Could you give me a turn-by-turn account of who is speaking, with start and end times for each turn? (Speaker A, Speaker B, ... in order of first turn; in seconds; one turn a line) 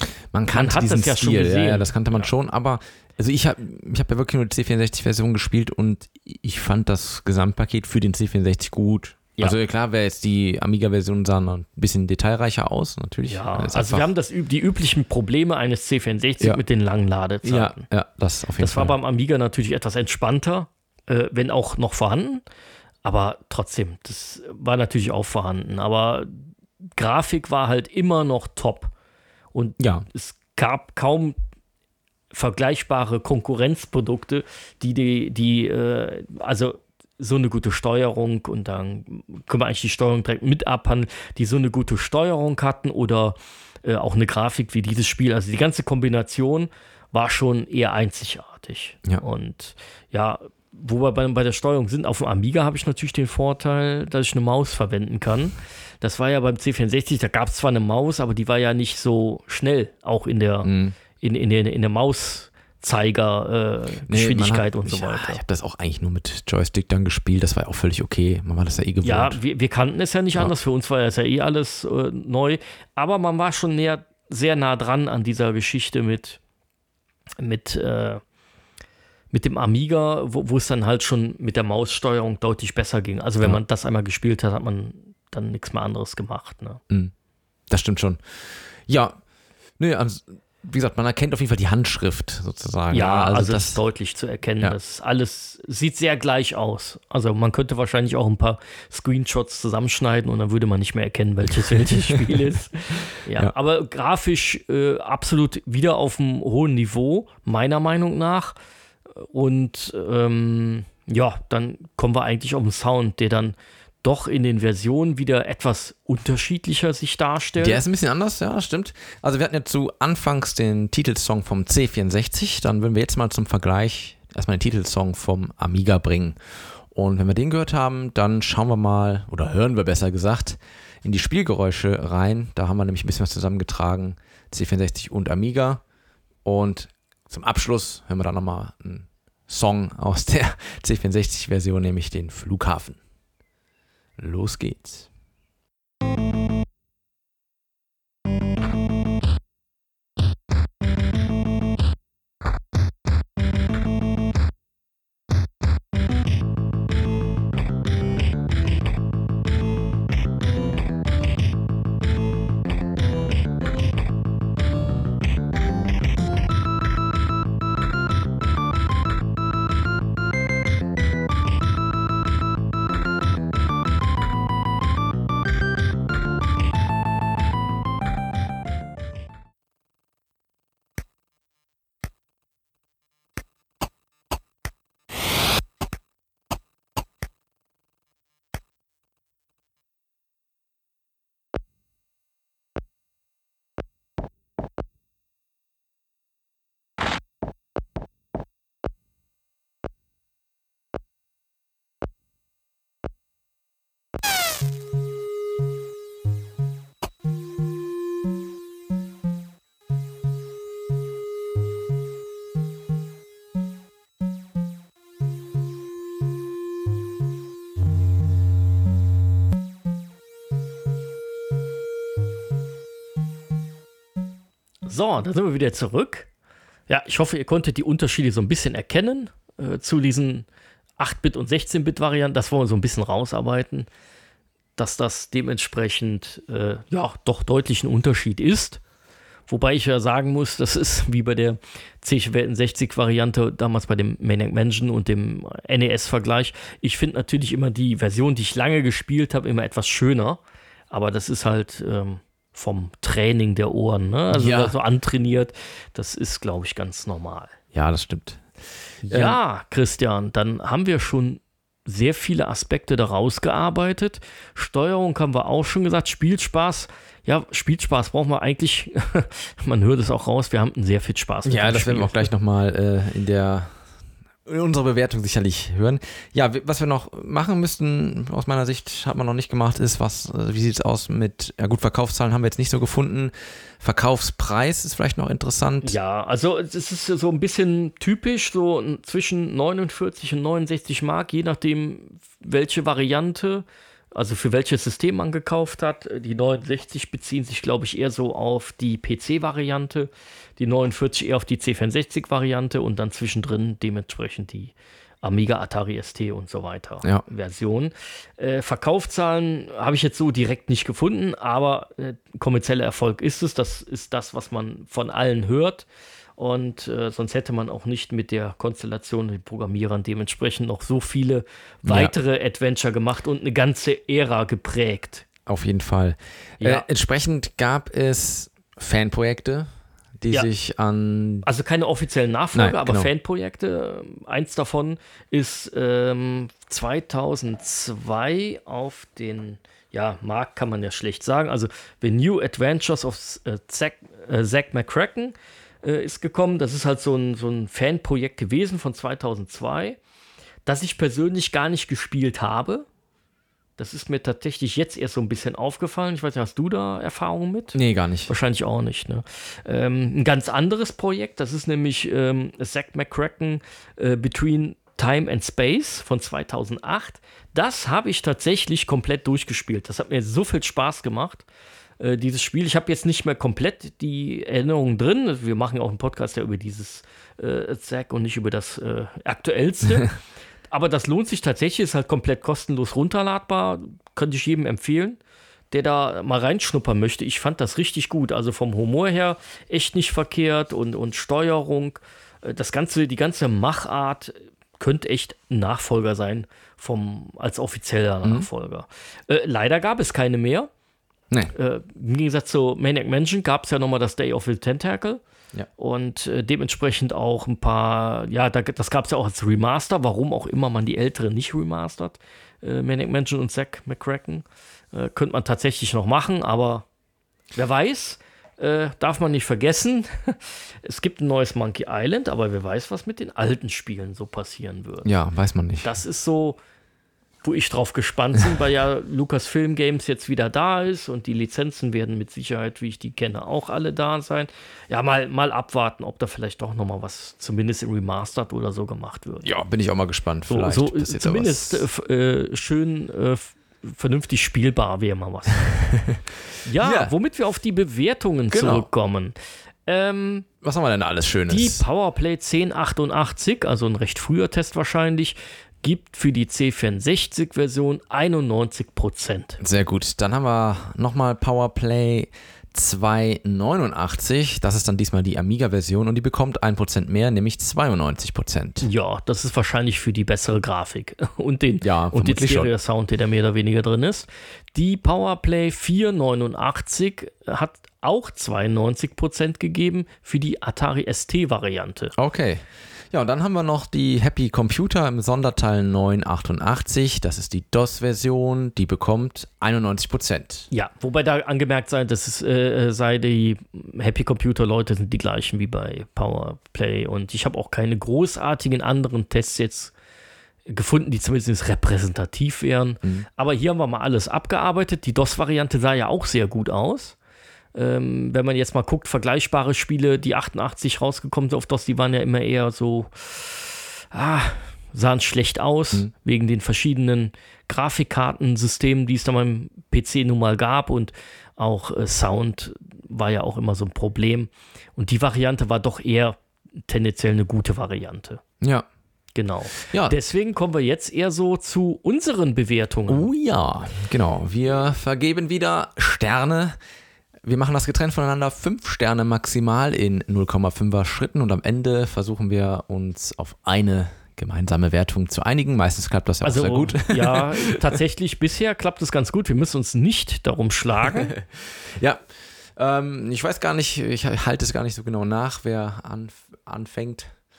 Speaker A: 0.3-14.1
Speaker B: 0.5-2.3
Speaker B: 13.3-17.9
Speaker A: 17.4-18.9
Speaker B: 18.6-22.4
Speaker B: 23.0-28.9
Speaker B: 29.5-31.4
Speaker A: 29.8-30.1
Speaker B: 32.3-65.4
Speaker A: 60.6-61.0
Speaker A: 64.1-69.4
Speaker B: 69.0-76.4
Speaker B: 77.4-78.2
Speaker B: 79.3-86.8
Speaker A: 87.7-89.2
Speaker A: 89.8-93.8
Speaker B: 92.9-108.5
Speaker A: 101.6-102.5
Speaker B: 109.2-117.8
Speaker A: 117.6-126.4
Speaker A: 126.9-135.8
Speaker A: 136.4-143.0
Speaker A: 144.2-145.1
Speaker B: 224.9-226.3
Speaker B: 226.9-230.5
Speaker B: 231.0-233.9
Speaker B: 234.8-238.8
Speaker B: 239.5-250.4
Speaker B: 250.9-257.6
Speaker A: 254.3-254.8
Speaker A: 257.7-258.4
Speaker B: 259.1-272.2
Speaker A: 259.1-259.4
Speaker A: 271.5-273.8
Speaker A: 274.5-286.0
Speaker B: 285.8-315.9
Speaker B: 316.4-325.3
Speaker A: 321.9-322.1
Speaker A: 325.5-329.7
Speaker B: 326.6-326.9
Speaker A: 330.2-331.5
Speaker B: 331.4-350.0
Speaker A: 332.5-333.1
Speaker B: 350.6-352.9
Speaker B: 353.8-371.4
Speaker A: 357.7-358.3
Speaker B: 372.0-380.1
Speaker B: 380.7-385.2
Speaker B: 385.7-400.7
Speaker B: 401.5-405.2
Speaker B: 405.8-416.9
Speaker B: 417.6-425.1
Speaker A: 425.0-425.9
Speaker B: 425.8-426.6
Speaker B: 427.4-439.5
Speaker A: 439.4-441.9
Speaker B: 440.5-445.7
Speaker A: 445.7-446.2
Speaker B: 446.6-449.3
Speaker A: 446.8-447.1
Speaker A: 448.5-448.9
Speaker B: 449.9-450.5
Speaker A: 450.6-451.8
Speaker B: 451.5-459.6
Speaker A: 459.6-468.9
Speaker B: 468.8-482.1
Speaker A: 471.8-472.7
Speaker A: 482.2-490.7
Speaker B: 490.7-499.9
Speaker B: 500.7-507.2
Speaker B: 507.7-528.4
Speaker A: 528.6-528.9
Speaker B: 529.4-533.3
Speaker A: 529.9-530.2
Speaker A: 533.1-536.8
Speaker A: 537.5-547.8
Speaker B: 546.4-551.4
Speaker A: 551.3-552.2
Speaker A: 552.8-557.3